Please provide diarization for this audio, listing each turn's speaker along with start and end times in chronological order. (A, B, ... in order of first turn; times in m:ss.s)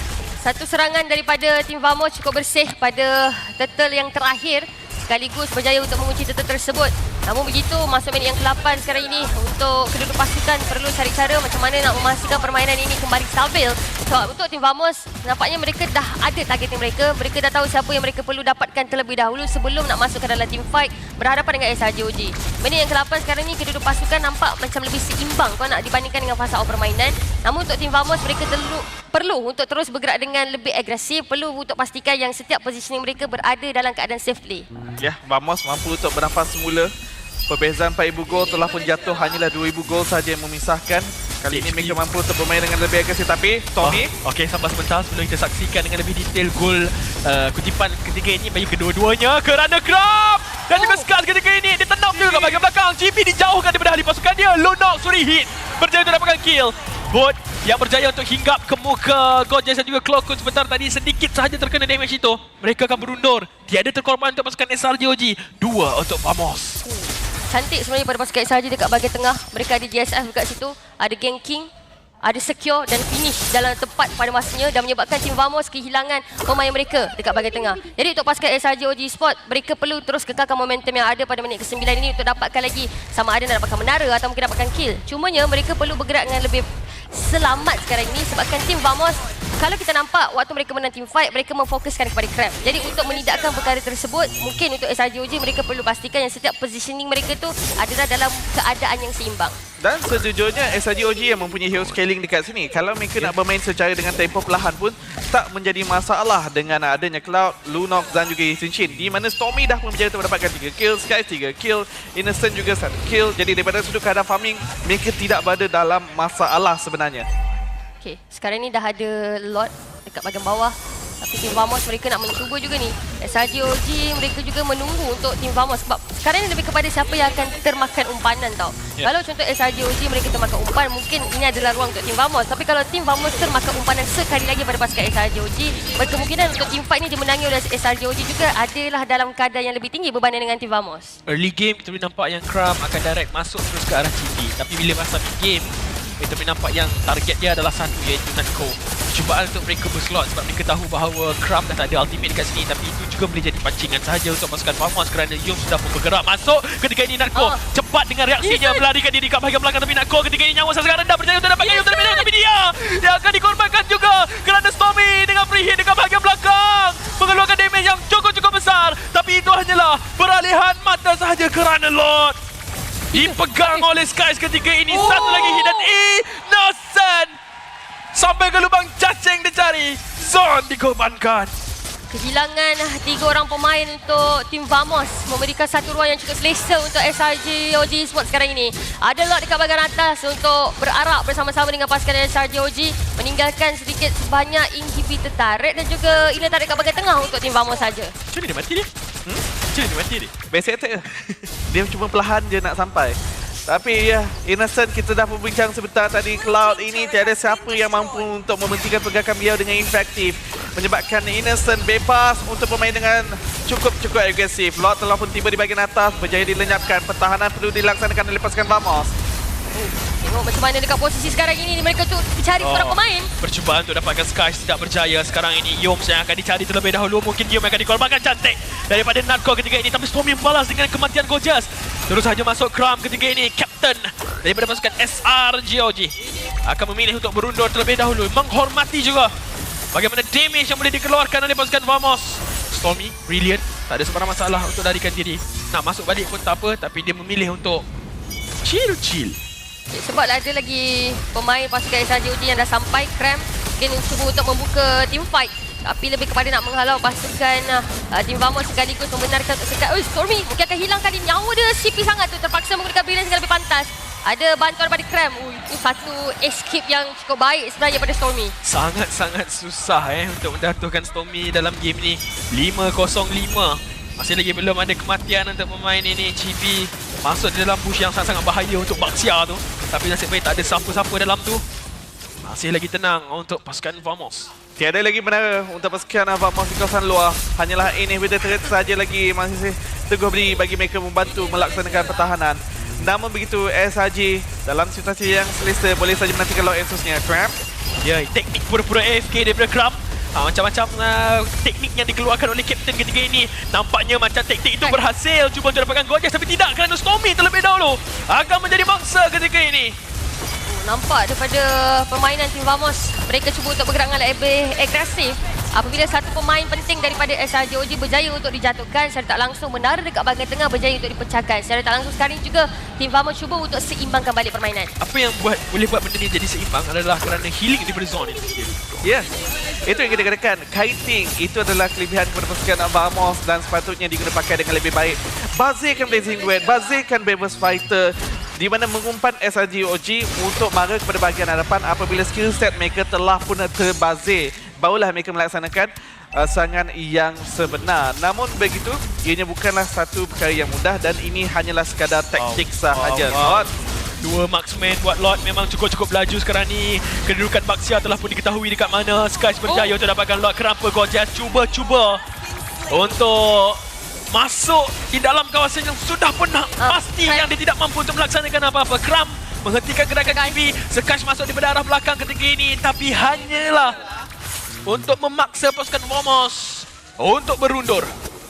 0:00.4-0:34.6 A
0:35.0-0:36.9 B
0:37.5-0:44.1 B
0:41.5-0:42.0 C
0:43.8-1:06.9 C
0:50.7-0:51.0 A
0:52.2-0:52.5 A
1:07.5-1:11.7 A
1:12.2-1:39.6 A
1:39.8-1:57.3 B
1:58.0-2:21.2 A
2:21.3-2:52.4 C
2:37.3-2:37.6 A
2:38.4-2:38.8 A
2:41.6-2:42.3 A
2:53.1-2:53.8 A
2:53.1-2:57.4 C
2:54.9-2:55.9 A
2:58.1-3:01.5 C
3:02.1-3:18.2 A
3:18.3-3:18.9 C
3:19.7-3:20.3 C
3:20.5-3:21.0 B
3:21.7-3:39.1 B
3:39.7-3:43.3 A
3:42.6-3:56.1 C
3:56.6-3:59.3 C
3:59.9-4:07.8 C
4:08.6-4:09.4 C
4:09.9-4:28.5 A
4:28.6-4:41.6 C
4:42.4-4:44.5 C
4:44.8-4:57.6 B
4:58.0-5:10.0 C
5:10.6-5:24.9 A
5:25.0-5:28.8 C
5:29.0-5:29.3 B
5:29.8-5:53.7 B
5:52.4-6:02.2 C
5:59.6-6:00.0 A
6:02.8-6:14.0 C
6:06.8-6:07.5 A
6:10.3-6:10.6 A
6:14.8-6:18.1 C